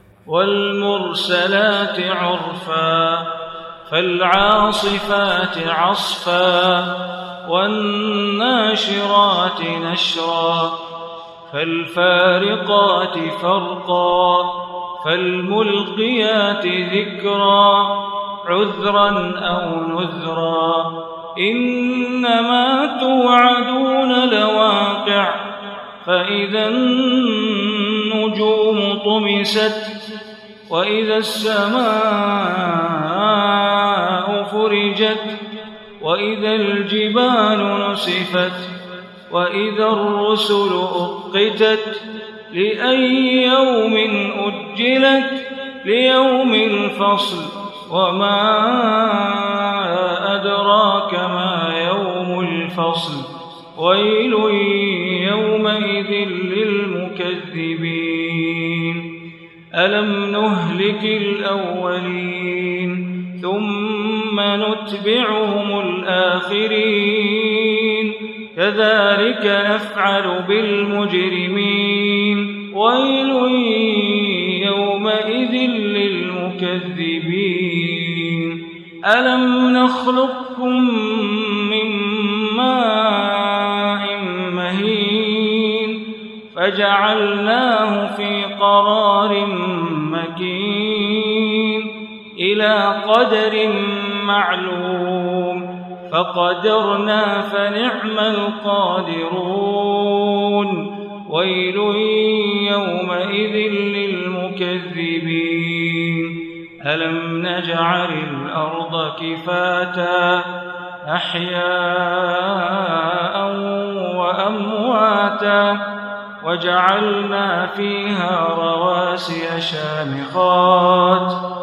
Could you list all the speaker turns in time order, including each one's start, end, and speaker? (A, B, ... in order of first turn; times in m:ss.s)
0:00.3-0:03.2 A
0:03.9-0:06.8 A
0:07.5-0:10.7 A
0:11.5-0:14.5 A
0:15.0-0:17.9 A
0:18.5-0:20.9 A
0:21.4-0:25.3 A
0:26.0-0:29.9 A
0:30.7-0:35.4 A
0:36.0-0:38.7 A
0:39.3-0:59.0 A
0:59.8-1:18.6 A
1:19.1-1:26.0 A
1:26.5-1:31.9 A
1:32.4-1:46.3 A
1:46.9-1:50.4 A
1:51.1-1:55.7 A
1:56.4-2:01.3 A